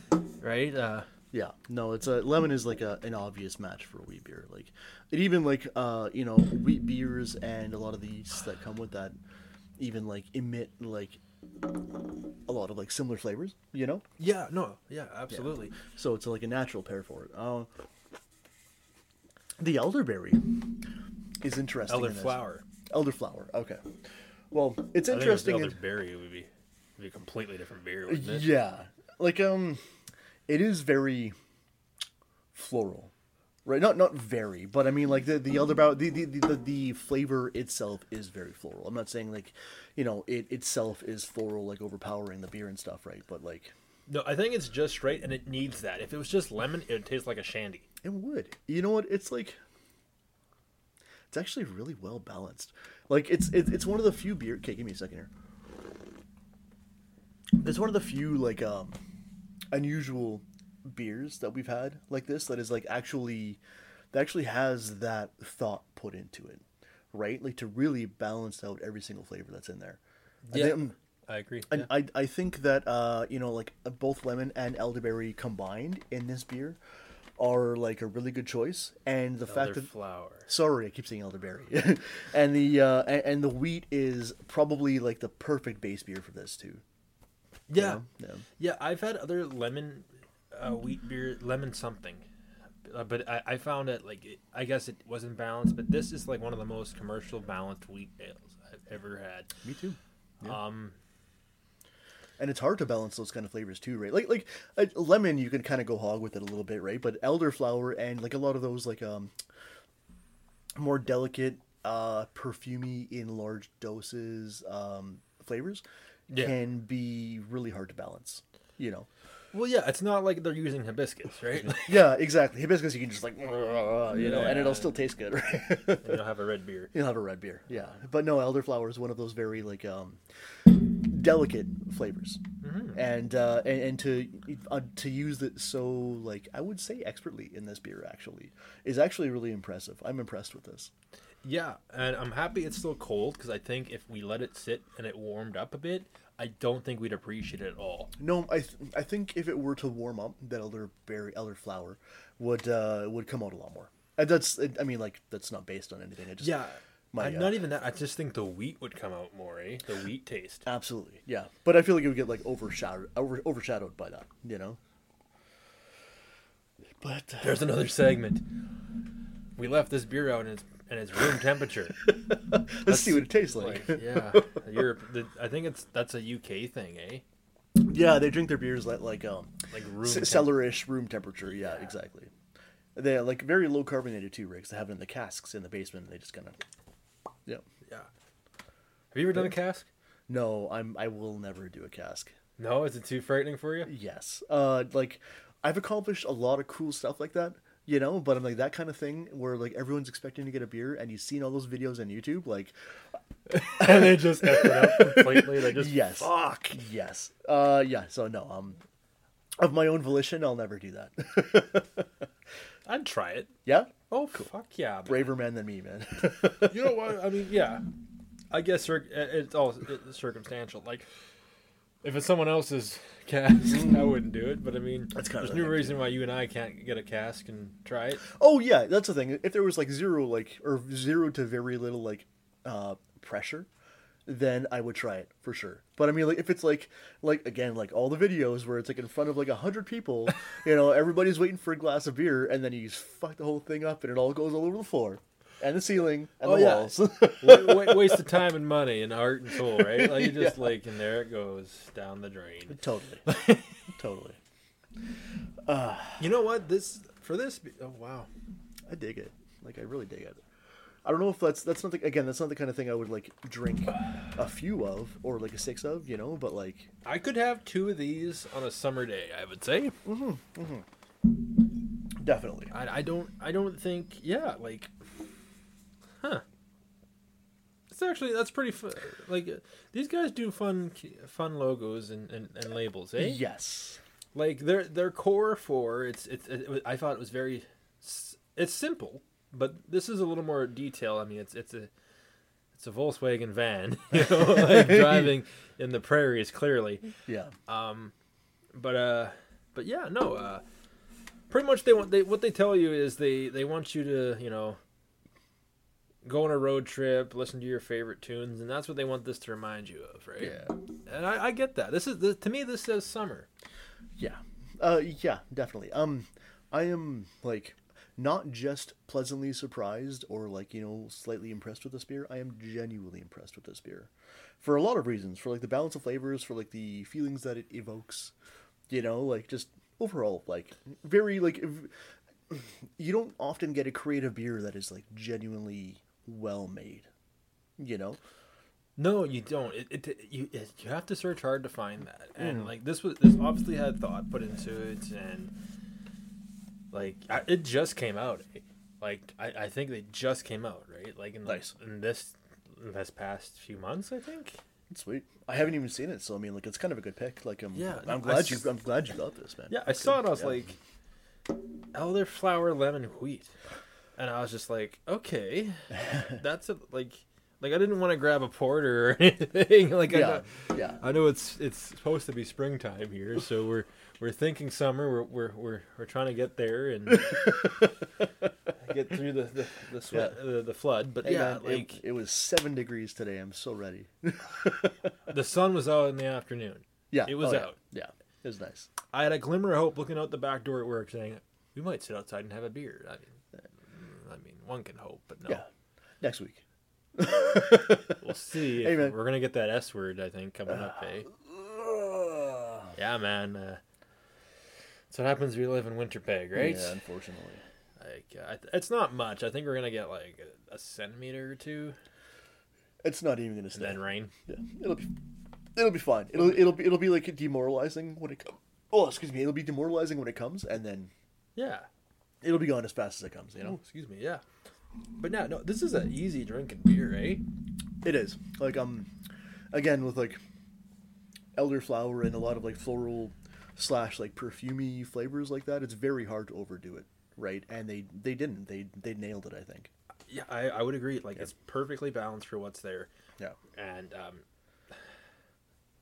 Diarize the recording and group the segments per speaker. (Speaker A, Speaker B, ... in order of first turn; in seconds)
Speaker A: 0.4-1.1, 14.2-15.8, 21.9-22.6, 25.1-28.5, 44.1-47.9, 70.4-71.9, 79.5-80.5, 87.7-88.0, 88.6-92.2, 92.8-99.5, 100.4-101.0, 116.3-116.6, 119.5-122.0, 124.1-125.0, 126.0-126.9, 132.6-133.0, 141.4-148.1, 156.4-160.7, 167.4-168.4, 169.6-172.1, 172.8-177.2, 179.7-180.6, 181.6-181.9, 189.1-189.9, 192.6-193.9, 203.5-206.7, 212.8-213.5, 214.1-215.3, 216.4-217.8, 218.5-221.1, 222.0-228.3, 246.4-253.8, 256.2-258.3, 267.1-270.0, 272.7-274.9, 277.9-283.4, 284.3-291.9, 292.7-297.1, 297.7-298.1, 298.7-300.6, 301.5-304.8, 306.2-313.5, 339.0-345.5, 346.9-354.6, 357.7-358.7, 359.7-360.8, 361.9-363.5, 364.2-377.9, 378.8-382.0, 385.3-387.8, 389.1-395.6, 398.1-401.3, 402.9-403.8, 405.1-406.9, 408.0-411.9, 413.7-414.3, 416.3-416.7, 421.6-421.9, 423.6-424.4, 425.2-427.4, 440.3-443.1, 443.7-444.4
Speaker B: 1.3-9.2, 9.8-11.2, 12.4-14.0, 15.3-17.7, 19.6-20.8, 21.4-23.9, 24.5-25.8, 28.1-29.8, 30.5-31.3, 32.5-33.1, 33.6-43.7, 48.0-49.6, 51.3-55.3, 57.6-59.0, 59.7-63.6, 64.1-70.9, 71.7-76.8, 77.4-79.9, 80.5-86.8, 87.7-88.4, 99.6-100.6, 102.4-109.3, 110.8-119.1, 121.7-126.2, 126.9-132.4, 132.9-140.9, 148.2-156.6, 157.1-157.6, 160.6-164.8, 167.0-167.7, 172.0-174.6, 177.8-182.3, 182.9-186.6, 190.3-192.3, 193.8-202.7, 203.6-208.8, 209.6-212.1, 213.6-214.5, 215.1-216.9, 225.1-226.0, 228.2-233.7, 234.2-248.3, 249.6-250.8, 252.7-253.2, 253.9-254.4, 255.7-256.2, 258.9-260.4, 261.1-266.9, 270.1-270.8, 272.2-272.7, 283.2-284.0, 294.1-295.3, 297.2-297.5, 310.4-310.7, 314.2-328.3, 328.9-331.9, 332.5-337.1, 337.8-338.2, 342.4-342.7, 351.4-351.7, 354.9-360.7, 365.9-366.4, 370.1-371.0, 377.2-377.9, 380.1-380.4, 381.2-385.1, 387.1-388.9, 396.2-396.6, 397.1-398.2, 398.8-399.2, 401.3-402.9, 406.5-407.6, 413.0-415.1, 415.7-421.1, 422.4-423.8, 428.0-429.1, 429.7-430.4, 431.6-439.9